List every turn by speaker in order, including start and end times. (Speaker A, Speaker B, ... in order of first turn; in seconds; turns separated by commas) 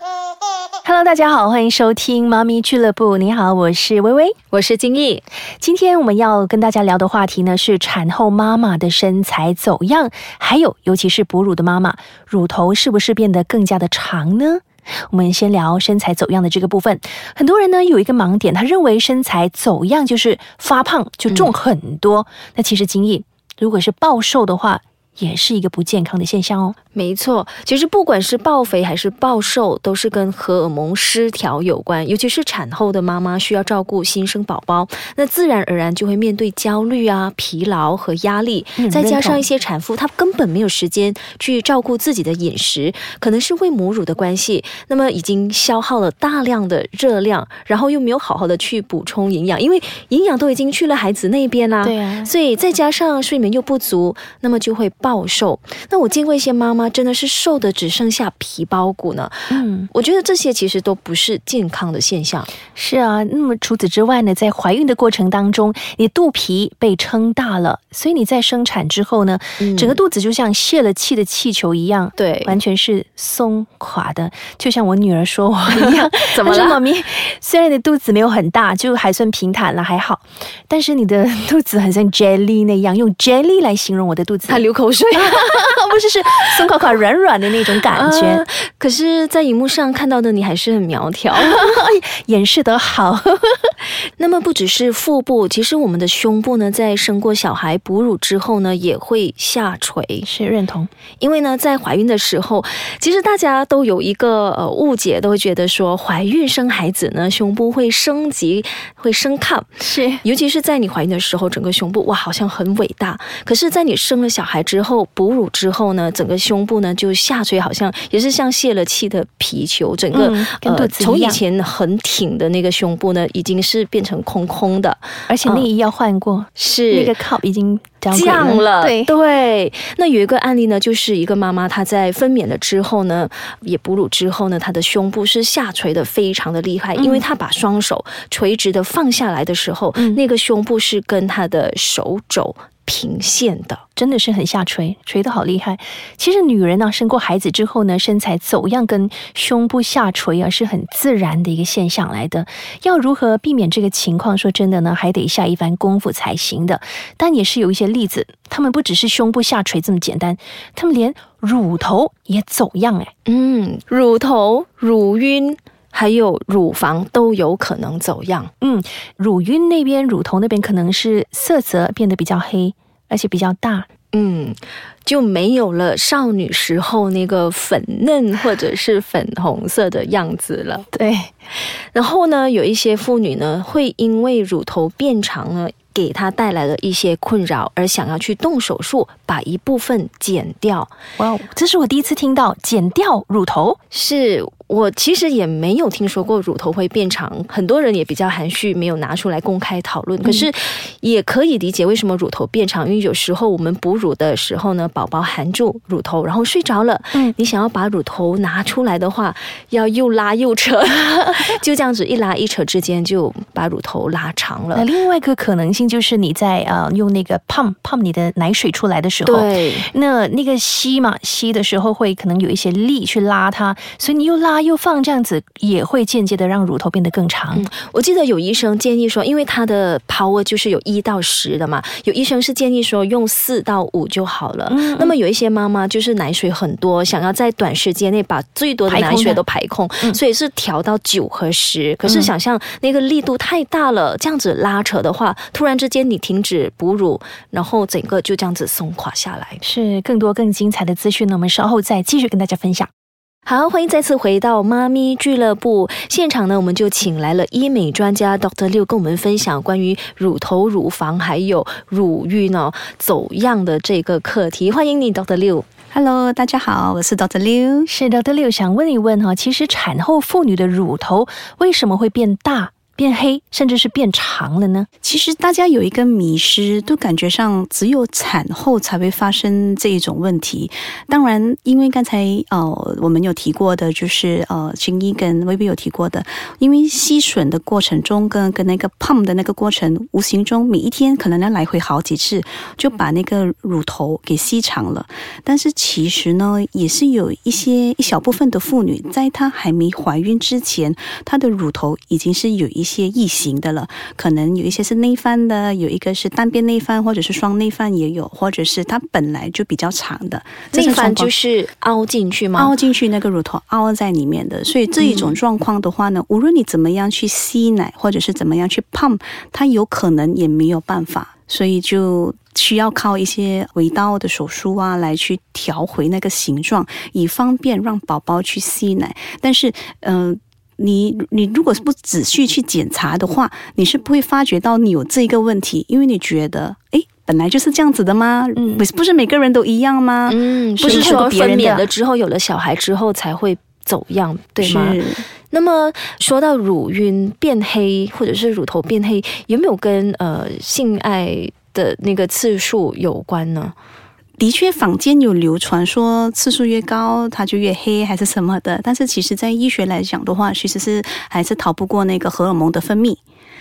Speaker A: 0.8-4.3, Speaker B: 4.5-5.2, Speaker A: 5.6-26.8, Speaker B: 27.0-62.5, Speaker A: 38.8-39.4, Speaker A: 51.8-52.3, Speaker A: 59.5-59.9, Speaker A: 62.8-88.5, Speaker B: 72.2-72.5, Speaker B: 75.8-76.7, Speaker B: 84.5-85.6, Speaker B: 88.7-91.5, Speaker A: 91.3-93.7, Speaker B: 94.2-100.3, Speaker A: 100.2-100.9, Speaker B: 101.2-109.7, Speaker A: 109.8-110.2, Speaker B: 110.2-125.7, Speaker A: 120.1-121.4, Speaker A: 125.3-129.1, Speaker B: 126.6-127.1, Speaker B: 128.1-143.8, Speaker A: 136.9-137.2, Speaker A: 139.9-140.2, Speaker A: 143.9-163.1, Speaker B: 163.3-168.5, Speaker A: 168.6-173.9, Speaker B: 174.1-180.8, Speaker A: 180.9-181.3, Speaker B: 181.9-190.9, Speaker A: 191.2-193.8, Speaker B: 194.0-200.5, Speaker A: 200.2-200.5, Speaker B: 201.0-214.8, Speaker A: 211.0-211.4, Speaker A: 214.7-227.7, Speaker B: 219.2-219.8, Speaker B: 227.5-249.6, Speaker A: 234.7-235.1, Speaker A: 238.9-239.4, Speaker A: 242.0-242.3, Speaker A: 249.6-252.9, Speaker B: 253.4-265.6, Speaker C: 265.9-267.9, Speaker A: 267.9-274.9, Speaker C: 275.0-311.3, Speaker B: 310.7-312.7, Speaker C: 312.6-341.8, Speaker B: 315.0-315.3, Speaker A: 338.6-338.8, Speaker B: 340.3-345.0, Speaker A: 340.8-341.9, Speaker C: 344.6-345.2, Speaker B: 345.5-353.7, Speaker C: 354.4-363.2